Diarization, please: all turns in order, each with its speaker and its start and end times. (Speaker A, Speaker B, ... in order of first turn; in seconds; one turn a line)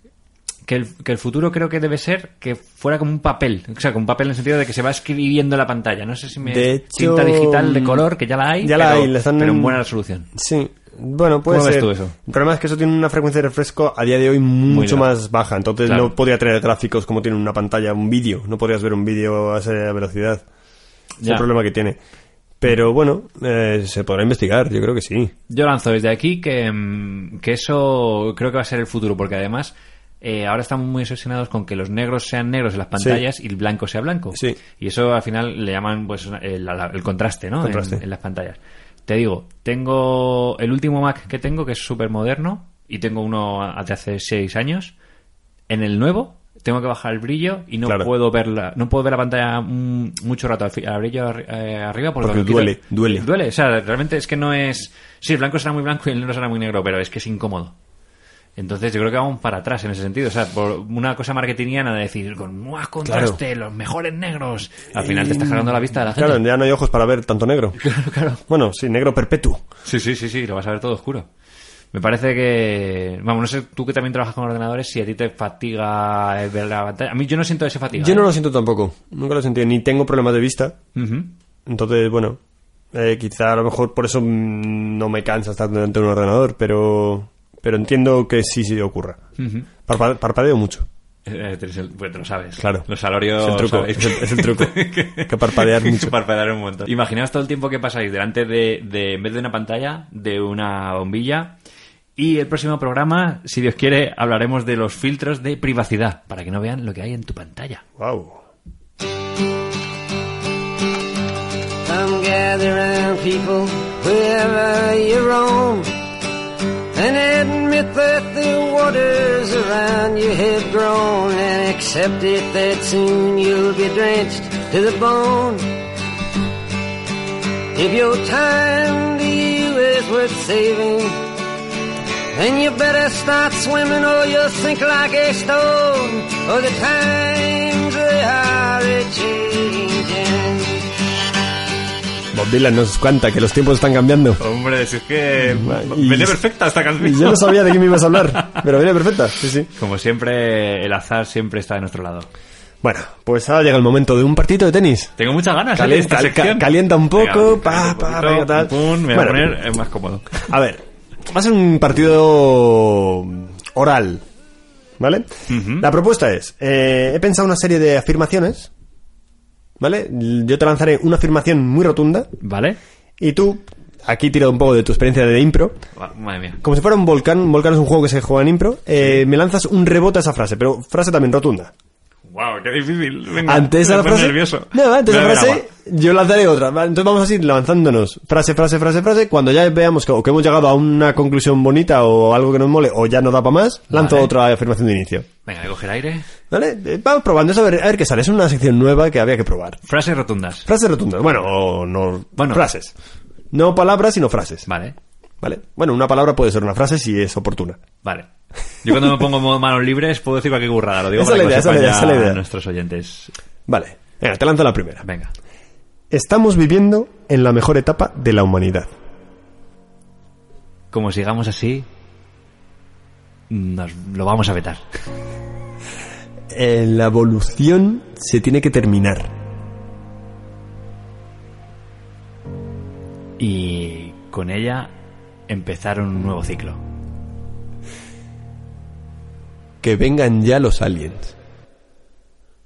Speaker A: 0.7-10.3
Speaker B: 6.5-8.0
Speaker B: 8.6-9.8
Speaker B: 10.3-20.4
Speaker A: 11.5-12.2
Speaker A: 14.7-15.1
Speaker A: 15.8-16.1
Speaker A: 21.2-21.5
Speaker B: 21.2-22.0
Speaker B: 22.6-25.3
Speaker A: 25.5-44.9
Speaker B: 37.6-38.0
Speaker A: 45.7-57.7
Speaker B: 52.2-53.3
Speaker A: 58.6-66.4
Speaker B: 63.0-63.4
Speaker B: 65.0-67.8
Speaker A: 67.8-68.4
Speaker B: 68.5-69.6
Speaker A: 69.8-71.3
Speaker A: 71.9-78.2
Speaker B: 78.0-80.8
Speaker A: 81.0-81.3
Speaker B: 81.7-82.4
Speaker B: 82.9-89.2
Speaker A: 89.4-89.7
Speaker B: 89.8-90.9
Speaker A: 91.3-101.6
Speaker B: 92.6-92.9
Speaker B: 93.4-96.1
Speaker A: 102.2-107.8
Speaker B: 108.0-108.4
Speaker C: 111.8-115.9
Speaker C: 117.0-125.7
Speaker C: 127.8-131.2
Speaker C: 132.3-140.8
Speaker B: 142.3-144.4
Speaker A: 144.4-148.7
Speaker B: 145.4-146.4
Speaker B: 147.0-149.7
Speaker A: 149.8-152.3
Speaker B: 152.8-155.1
Speaker A: 155.2-160.5
Speaker B: 155.7-159.5
Speaker B: 160.5-164.2
Speaker B: 165.0-168.7
Speaker A: 165.5-165.9
Speaker B: 169.8-172.3
Speaker A: 172.4-172.8
Speaker B: 173.2-175.8
Speaker A: 176.0-176.6
Speaker B: 176.6-181.7
Speaker A: 182.3-185.6
Speaker B: 183.4-195.3
Speaker A: 193.9-194.3
Speaker A: 195.5-196.3
Speaker B: 196.5-199.8
Speaker A: 199.9-200.7
Speaker B: 200.7-202.9
Speaker A: 202.4-202.7
Speaker B: 203.5-204.7
Speaker A: 204.7-204.9
Speaker B: 205.4-207.8
Speaker A: 208.8-213.3
Speaker B: 211.2-212.4
Speaker B: 213.7-215.1
Speaker A: 215.1-215.3
Speaker B: 216.1-218.9
Speaker A: 220.9-221.9
Speaker A: 223.5-224.8
Speaker B: 226.5-229.3
Speaker A: 233.4-234.9
Speaker A: 235.5-236.8
Speaker B: 239.8-241.3